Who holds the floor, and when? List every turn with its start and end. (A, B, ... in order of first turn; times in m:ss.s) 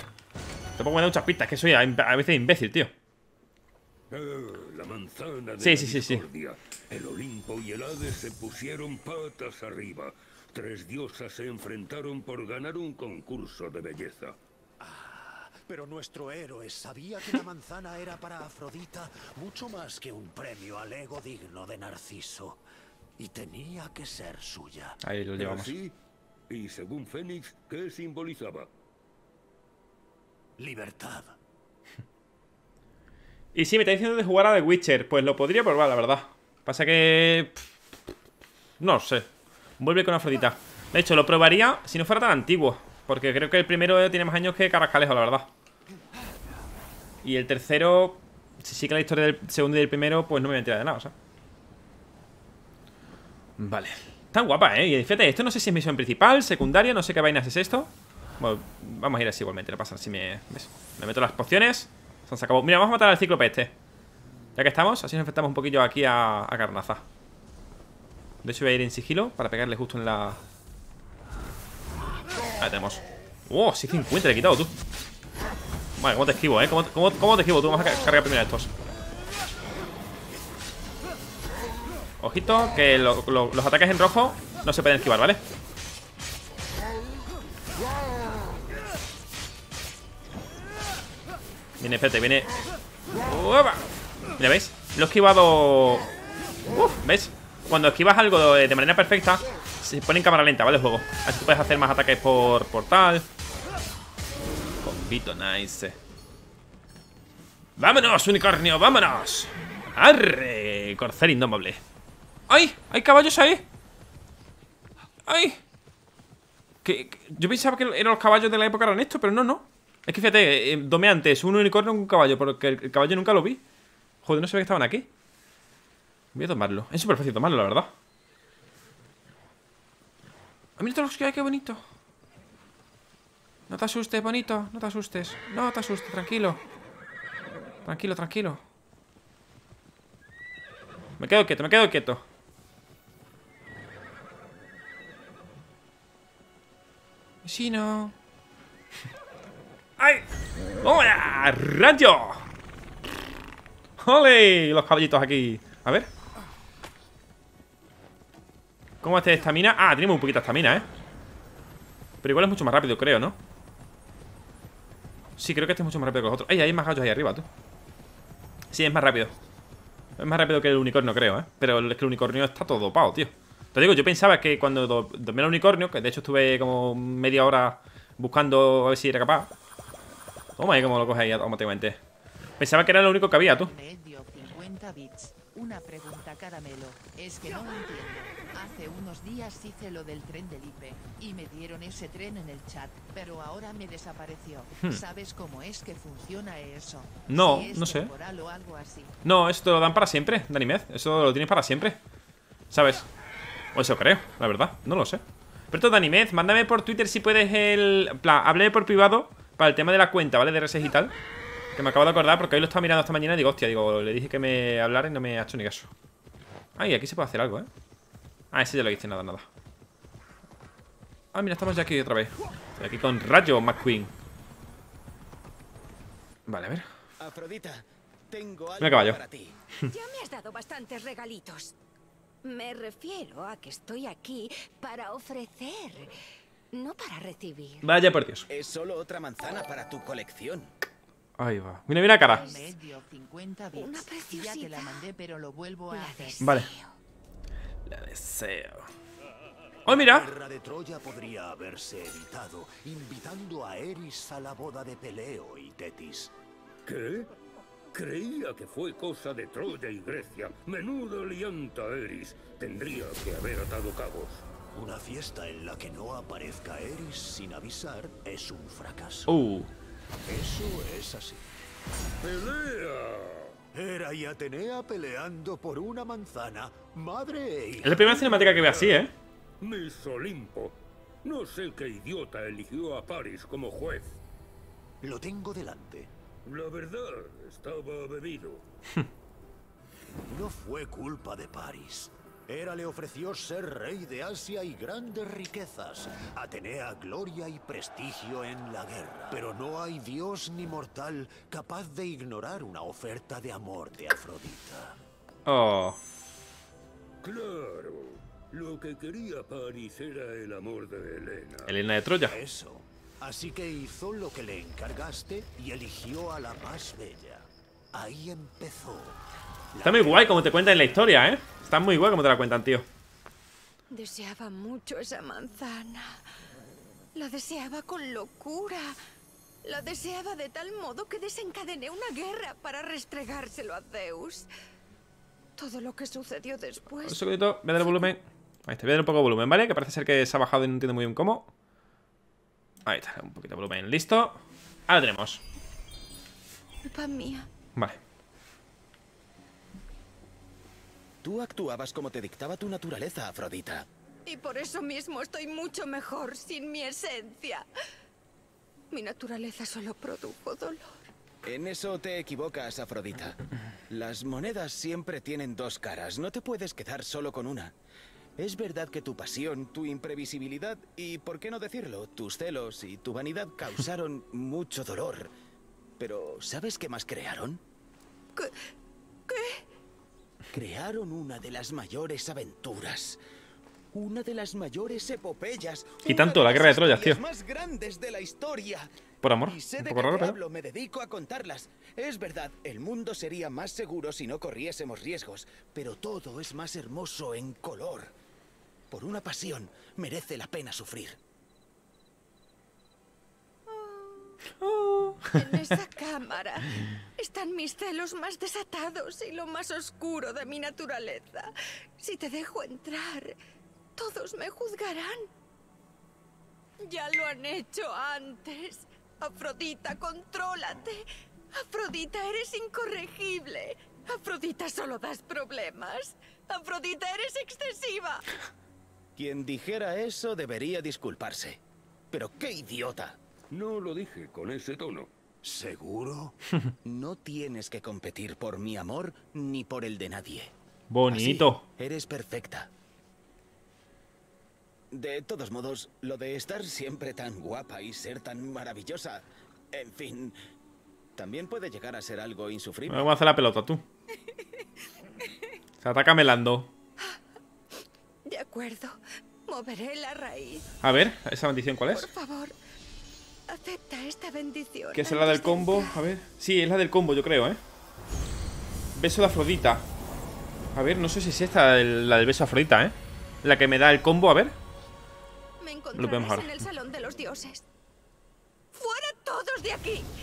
0:00.8-0:02.9 A
0:04.1-0:14.4 B
0:05.6-0:06.2 A
0:14.8-0:22.6 C
0:23.2-0:25.0 C
0:25.0-0:25.7 A
0:25.4-0:25.9 B
0:26.5-0:28.7 B
0:30.6-0:31.4 C
0:33.5-0:37.7 A
0:38.8-0:45.5 A
0:47.2-0:51.1 A
0:53.6-1:03.7 A
1:04.6-1:07.0 A
1:08.4-1:10.4 A
1:12.6-1:14.7 A
1:16.0-1:18.7 A
1:22.2-1:25.4 A
1:31.8-1:32.5 A
1:33.2-1:33.8 A
1:34.4-1:36.1 A
1:36.7-1:43.2 A
1:44.8-1:46.0 A
1:47.8-1:51.8 A
1:52.5-1:53.6 A
1:55.3-1:55.6 A
1:56.8-2:03.6 A
2:04.2-2:05.1 A
2:06.3-2:07.9 A
2:10.8-2:11.8 A
2:13.7-2:16.6 A
2:17.8-2:18.6 A
2:21.2-2:22.2 A
2:27.4-2:28.1 A
2:30.0-2:30.2 A
2:30.8-2:32.4 A
2:34.0-2:36.1 A
2:39.0-2:40.9 A
2:42.2-2:43.4 A
2:45.4-2:47.5 A
2:48.7-2:49.3 A
2:50.2-2:59.5 A
3:00.6-3:02.0 A
3:02.6-3:03.7 A
3:03.5-3:19.1 D
3:17.3-3:18.1 A
3:19.2-3:22.0 A
3:22.7-3:23.1 A
3:23.7-3:31.1 A
3:31.8-3:35.9 A
3:36.8-3:37.7 A
3:38.5-3:39.5 A
3:41.3-3:44.1 A
3:46.5-3:46.8 A
3:47.2-3:49.6 E
3:48.8-3:49.2 A
3:49.9-3:51.7 F
3:52.4-3:56.1 F
3:56.7-3:57.8 F
3:57.8-3:58.5 A
3:58.5-4:00.7 E
4:01.4-4:02.4 A
4:02.2-4:06.6 D
4:02.3-4:02.8 F
4:03.7-4:05.1 F
4:05.9-4:06.9 F
4:06.4-4:06.7 A
4:07.9-4:08.9 A
4:09.8-4:10.3 A
4:09.8-4:16.3 C
4:16.8-4:17.3 B
4:17.9-4:24.4 B
4:24.7-4:29.4 C
4:29.3-4:29.7 A
4:30.2-4:31.4 C
4:32.2-4:33.6 B
4:33.7-4:38.2 C
4:37.8-4:39.1 A
4:38.1-4:39.0 B
4:39.6-4:44.2 B
4:45.0-4:46.1 C
4:46.4-4:48.6 B
4:50.2-5:05.0 C
5:05.4-5:06.0 A
5:07.2-5:11.8 B
5:11.7-5:12.4 A
5:12.2-5:19.2 C
5:19.7-5:20.4 C
5:19.8-5:22.9 A
5:23.9-5:26.2 F
5:27.1-5:29.0 F
5:29.6-5:34.5 F
5:35.6-5:37.2 F
5:37.0-5:41.5 A
5:37.8-5:38.1 F
5:42.8-5:45.4 A
5:46.8-5:47.5 F
5:51.2-5:53.9 E
5:54.2-5:57.6 F
5:58.9-6:01.0 F
6:01.4-6:07.7 E
6:08.4-6:15.3 E
6:16.0-6:17.6 E
6:18.3-6:18.6 F
6:19.3-6:19.7 F
6:20.5-6:23.2 E
6:23.9-6:28.9 E
6:26.0-6:27.2 A
6:29.2-6:30.4 A
6:29.4-6:38.1 E
6:38.9-6:41.2 E
6:43.7-6:44.3 F
6:44.6-6:45.7 A
6:45.3-6:53.3 F
6:54.0-6:55.3 F
6:56.8-7:08.3 F
7:09.2-7:13.2 E
7:13.5-7:15.1 B
7:15.4-7:16.4 C
7:16.8-7:20.5 E
7:20.9-7:21.6 A
7:21.1-7:22.7 E
7:24.9-7:30.4 E
7:31.2-7:33.1 E
7:32.9-7:33.8 A
7:34.2-7:34.6 F
7:35.2-7:35.5 F
7:35.8-7:36.7 A
7:38.2-7:40.6 F
7:40.8-7:42.1 A
7:41.9-7:42.5 F
7:43.5-7:46.0 F
7:44.9-7:47.6 A
7:48.9-7:49.8 A
7:50.7-7:54.6 A
7:55.6-7:57.6 F
7:55.9-7:56.5 A
7:58.7-8:00.1 F